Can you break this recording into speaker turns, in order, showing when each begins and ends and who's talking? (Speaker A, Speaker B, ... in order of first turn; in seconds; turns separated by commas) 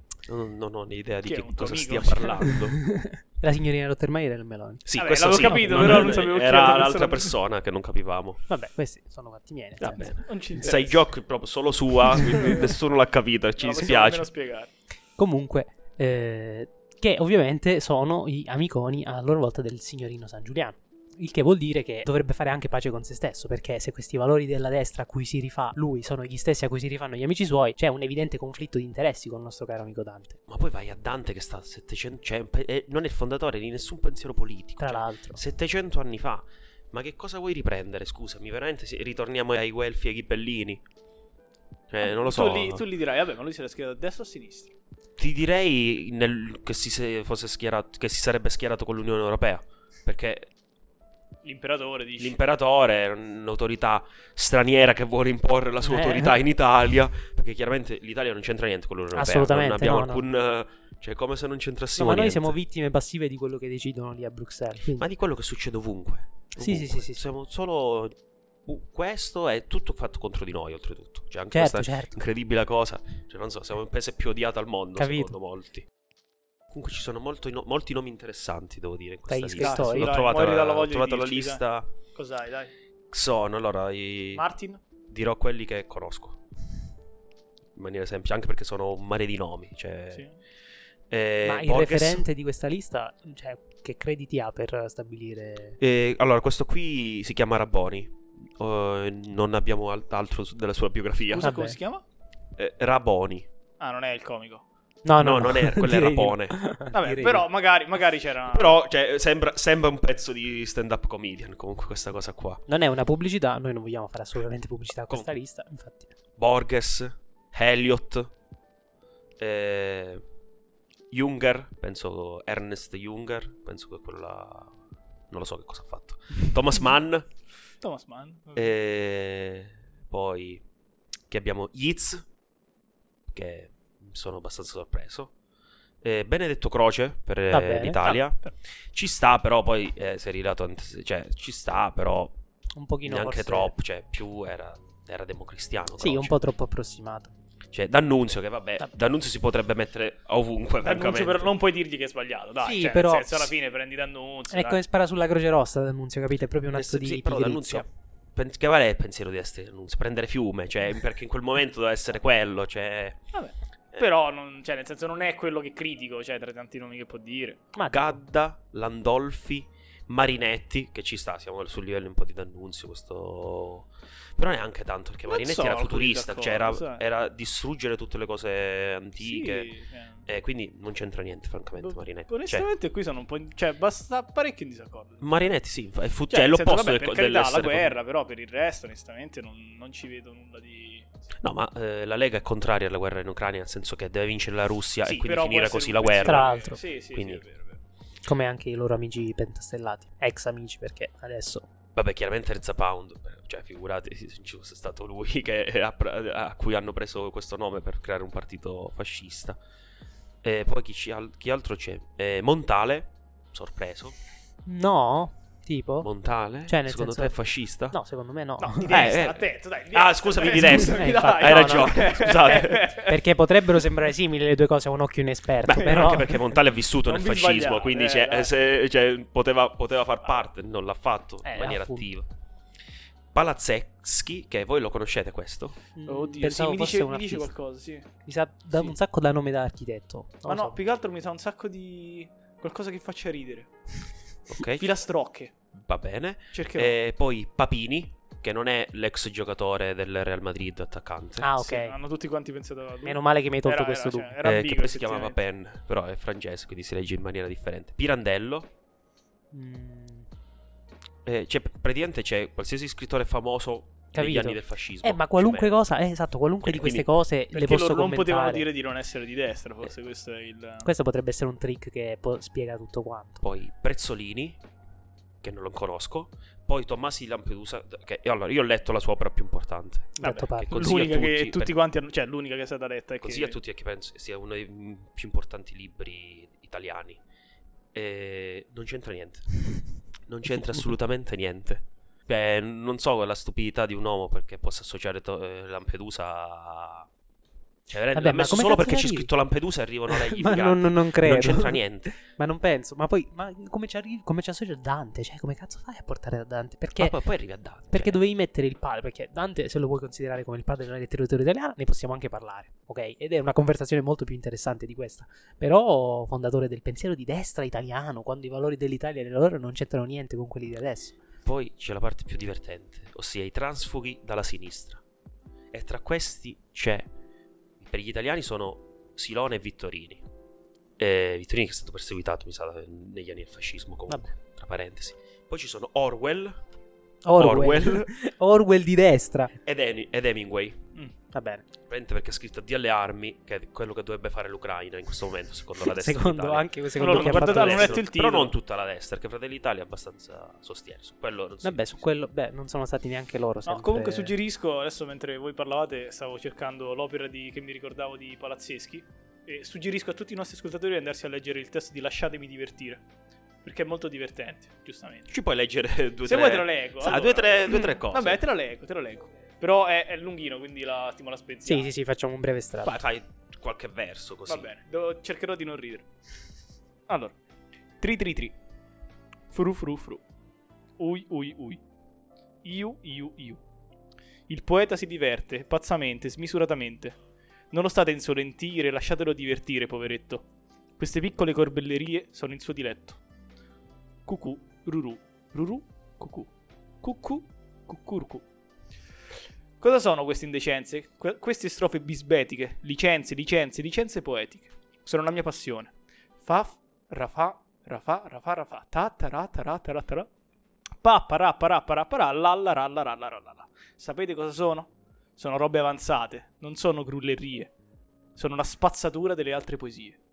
Speaker A: 0.2-2.8, Speaker B: 1.2-2.5, Speaker C: 2.8-6.2, Speaker A: 4.8-8.4, Speaker B: 5.0-7.3, Speaker C: 8.5-10.1, Speaker A: 9.8-14.3, Speaker B: 10.2-11.0, Speaker B: 12.2-12.8, Speaker B: 13.6-14.7, Speaker C: 15.2-30.4, Speaker A: 30.5-40.8, Speaker C: 34.8-35.4, Speaker A: 41.9-42.8, Speaker B: 42.0-44.7, Speaker A: 45.2-50.5, Speaker B: 51.4-52.4, Speaker A: 52.2-62.6, Speaker C: 55.8-56.3, Speaker C: 59.1-60.2, Speaker C: 62.0-65.1, Speaker A: 65.0-75.9, Speaker C: 66.5-67.3, Speaker C: 71.5-72.2, Speaker C: 75.0-75.3, Speaker A: 76.7-81.9, Speaker C: 79.3-80.2, Speaker B: 79.6-81.6, Speaker B: 82.1-82.7, Speaker A: 83.1-84.5, Speaker B: 84.3-84.8, Speaker A: 85.1-86.4, Speaker A: 87.8-90.2, Speaker A: 91.1-92.2, Speaker C: 91.4-95.8, Speaker A: 95.8-101.5, Speaker B: 101.3-102.0, Speaker C: 101.4-101.8, Speaker A: 102.6-103.5, Speaker B: 103.8-104.6, Speaker C: 105.0-107.5, Speaker A: 105.2-106.6, Speaker B: 106.9-108.8, Speaker A: 108.5-112.6, Speaker C: 112.7-116.1, Speaker A: 116.4-118.3, Speaker A: 119.4-120.2, Speaker A: 121.1-124.8, Speaker A: 125.3-127.3, Speaker B: 127.8-128.7, Speaker A: 128.5-130.6, Speaker A: 131.3-132.3, Speaker A: 133.3-135.3, Speaker A: 136.0-142.3, Speaker C: 137.5-138.0, Speaker B: 138.0-138.5, Speaker C: 142.8-143.7, Speaker A: 143.0-146.3, Speaker C: 146.0-147.3, Speaker A: 147.7-151.5, Speaker B: 150.8-154.8, Speaker C: 152.6-153.5, Speaker C: 154.5-157.9, Speaker A: 156.7-163.2, Speaker B: 163.3-167.6, Speaker C: 167.7-168.1, Speaker A: 167.9-179.7, Speaker B: 175.3-177.0, Speaker B: 179.2-180.2, Speaker A: 180.2-182.7, Speaker B: 181.8-185.3, Speaker A: 185.2-188.0, Speaker B: 186.3-191.2, Speaker A: 191.4-196.5, Speaker B: 195.1-197.8, Speaker C: 196.2-196.8, Speaker A: 197.1-197.4, Speaker C: 198.2-201.7, Speaker A: 201.9-209.6, Speaker A: 210.4-214.2, Speaker C: 214.7-216.1, Speaker A: 216.0-218.0, Speaker C: 216.7-217.3, Speaker C: 217.9-219.0, Speaker B: 218.6-223.2, Speaker A: 218.8-223.0, Speaker C: 220.7-222.1, Speaker C: 222.8-226.4, Speaker A: 225.6-232.3, Speaker B: 227.1-228.5, Speaker C: 231.4-232.1, Speaker A: 233.3-235.8, Speaker C: 235.9-237.5, Speaker B: 236.1-238.1, Speaker C: 238.2-240.8, Speaker B: 240.5-243.7, Speaker A: 244.5-244.8, Speaker B: 244.8-245.5, Speaker A: 245.7-251.5, Speaker B: 246.5-246.9, Speaker C: 251.4-251.9, Speaker B: 251.6-255.4, Speaker C: 253.1-254.3, Speaker A: 254.4-258.7, Speaker C: 259.5-260.3, Speaker A: 261.2-265.7, Speaker C: 264.1-268.7, Speaker A: 266.6-267.1, Speaker B: 267.5-270.9, Speaker C: 270.8-273.4, Speaker A: 273.4-274.6, Speaker A: 275.4-281.7, Speaker C: 280.2-280.9, Speaker B: 280.2-283.6, Speaker A: 283.2-287.2, Speaker A: 287.9-297.1, Speaker A: 297.9-302.2, Speaker C: 298.1-299.3, Speaker C: 300.1-307.2, Speaker A: 307.0-308.2, Speaker C: 307.9-321.2, Speaker A: 321.4-325.0, Speaker A: 325.7-327.1, Speaker A: 327.8-330.2, Speaker A: 331.0-336.6, Speaker C: 334.1-334.3, Speaker C: 337.2-339.5, Speaker A: 337.4-338.1, Speaker A: 339.6-340.8, Speaker C: 341.3-341.6, Speaker A: 341.9-352.1, Speaker C: 345.8-348.0, Speaker B: 346.9-348.5, Speaker C: 351.6-354.3, Speaker B: 353.7-363.0, Speaker B: 363.6-365.3, Speaker A: 365.3-368.4, Speaker B: 366.2-371.9, Speaker C: 371.6-373.0, Speaker A: 372.8-374.7, Speaker B: 374.5-376.1, Speaker B: 377.1-377.3, Speaker B: 378.0-378.6, Speaker B: 379.5-380.2, Speaker B: 381.0-381.8, Speaker B: 382.6-383.6, Speaker B: 384.5-387.2, Speaker B: 387.7-390.4, Speaker B: 391.0-393.2, Speaker B: 394.2-396.5, Speaker B: 397.0-398.4, Speaker B: 399.8-410.3, Speaker B: 411.0-417.7, Speaker B: 418.4-420.2